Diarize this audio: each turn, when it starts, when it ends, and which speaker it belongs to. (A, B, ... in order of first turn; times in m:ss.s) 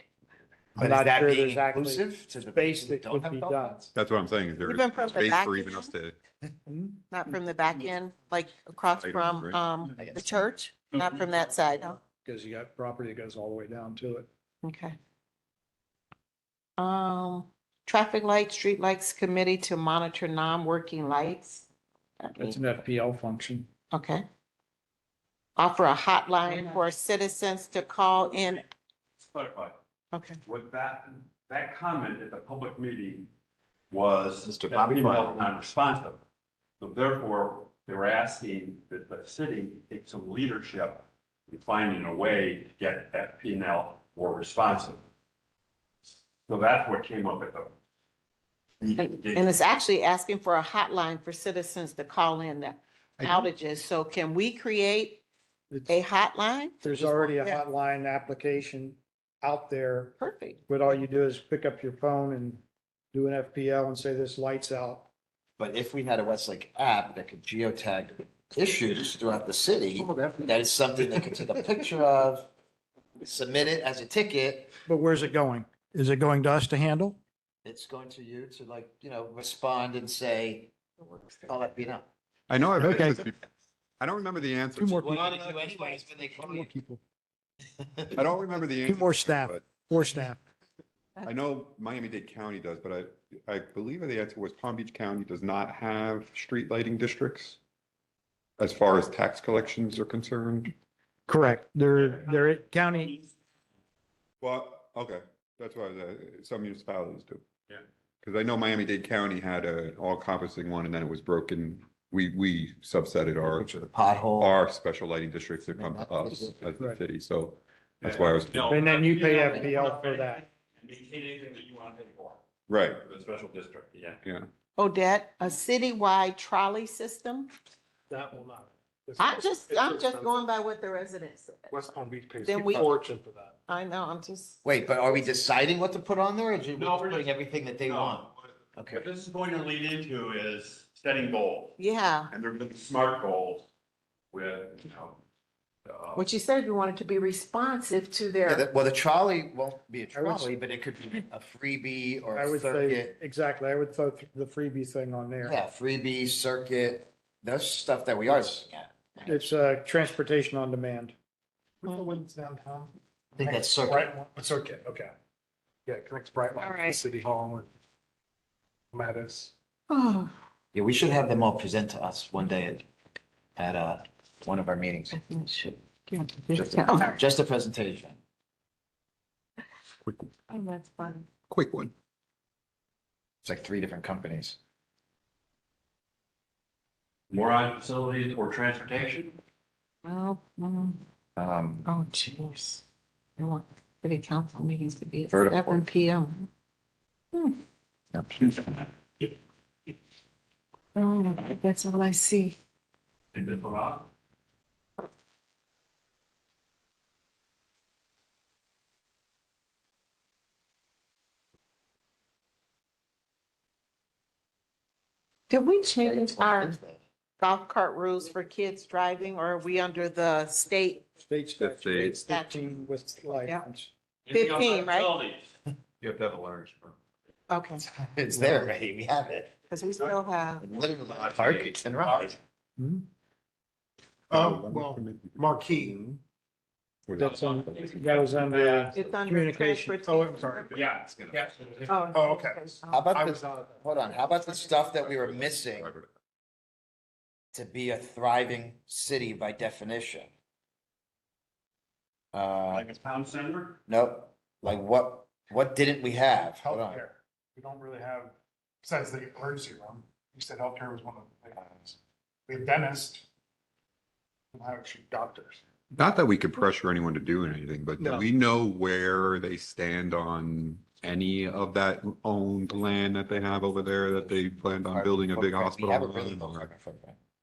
0:00.8-0:03.9 A
0:00.8-0:03.8 B
0:04.0-0:06.2 C
0:04.6-0:05.9 D
0:06.7-0:07.0 B
0:07.1-0:12.0 D
0:09.0-0:09.6 C
0:12.2-0:14.3 B
0:14.6-0:15.0 D
0:16.8-0:21.7 D
0:22.2-0:22.6 D
0:22.4-0:23.7 B
0:23.9-0:24.2 D
0:25.6-0:28.7 D
0:29.2-0:29.8 E
0:30.1-0:30.4 D
0:30.4-0:33.3 E
0:33.9-0:36.2 E
0:34.4-0:35.4 A
0:36.8-0:45.0 E
0:46.5-0:47.7 E
0:48.8-0:49.6 E
0:49.0-0:55.2 D
0:53.2-0:53.5 B
0:55.9-0:56.8 D
0:56.8-1:05.1 B
0:56.9-0:57.3 A
1:00.2-1:00.9 D
1:05.6-1:12.5 A
1:13.2-1:14.8 A
1:14.9-1:17.2 B
1:17.6-1:20.7 A
1:21.0-1:21.5 D
1:21.5-1:22.1 A
1:22.5-1:23.4 C
1:22.8-1:23.2 B
1:24.0-1:25.2 C
1:24.8-1:27.0 B
1:25.0-1:26.7 A
1:28.1-1:29.7 C
1:28.9-1:30.4 B
1:31.2-1:37.6 C
1:38.6-1:40.7 C
1:41.3-1:43.2 B
1:42.0-1:42.3 E
1:42.9-1:43.2 E
1:44.4-1:47.4 C
1:48.2-1:53.7 C
1:53.4-1:54.5 A
1:54.4-1:58.8 C
1:55.7-1:56.6 A
1:58.0-2:02.4 E
1:58.6-2:00.4 B
2:02.7-2:03.0 C
2:03.0-2:04.2 E
2:04.8-2:07.5 D
2:08.1-2:10.4 F
2:09.2-2:11.8 D
2:11.7-2:13.6 F
2:12.4-2:12.9 D
2:13.7-2:14.6 D
2:14.6-2:19.1 A
2:16.7-2:17.3 E
2:17.9-2:23.7 E
2:21.8-2:22.3 D
2:24.3-2:25.2 E
2:25.9-2:26.3 E
2:26.2-2:28.6 D
2:28.4-2:33.2 A
2:30.2-2:30.5 B
2:32.4-2:35.6 B
2:35.4-2:39.5 A
2:39.3-2:41.2 B
2:41.8-2:45.1 F
2:43.4-2:44.1 A
2:45.9-2:47.7 F
2:46.6-2:47.0 D
2:48.9-2:49.5 F
2:49.9-2:50.3 D
2:50.7-2:52.9 A
2:53.6-2:55.2 A
2:55.1-2:57.2 D
2:56.5-2:58.2 A
3:00.1-3:00.3 C
3:00.5-3:01.3 D
3:01.5-3:01.9 C
3:03.4-3:04.6 A
3:07.3-3:09.4 E
3:10.0-3:11.0 D
3:11.4-3:11.9 A
3:11.8-3:12.8 D
3:13.4-3:16.5 D
3:15.3-3:15.8 A
3:18.1-3:18.8 A
3:21.0-3:22.6 D
3:23.3-3:24.1 E
3:35.5-3:36.8 D
3:36.0-3:37.0 A
3:37.4-3:41.1 D
3:41.2-3:43.9 B
3:41.6-3:42.2 C
3:42.2-3:42.5 D
3:44.3-3:45.5 E
3:44.3-3:45.2 D
3:46.0-3:47.0 E
3:47.5-3:47.8 D
3:47.8-3:49.5 A
3:49.7-3:50.6 D
3:50.6-3:52.4 A
3:52.0-3:52.3 E
3:52.8-3:53.0 B
3:54.3-3:56.1 C
3:54.3-3:56.0 F
3:57.1-3:58.2 C
3:57.2-4:00.7 B
3:57.2-3:58.9 E
3:58.9-4:00.8 D
4:00.7-4:01.9 E
4:01.9-4:03.1 D
4:01.9-4:03.8 F
4:02.9-4:05.9 A
4:05.0-4:06.1 C
4:07.5-4:10.3 A
4:12.3-4:12.9 A
4:12.7-4:13.8 E
4:13.9-4:17.0 A
4:16.6-4:23.2 F
4:24.5-4:25.6 F
4:25.9-4:36.7 C
4:32.7-4:37.2 A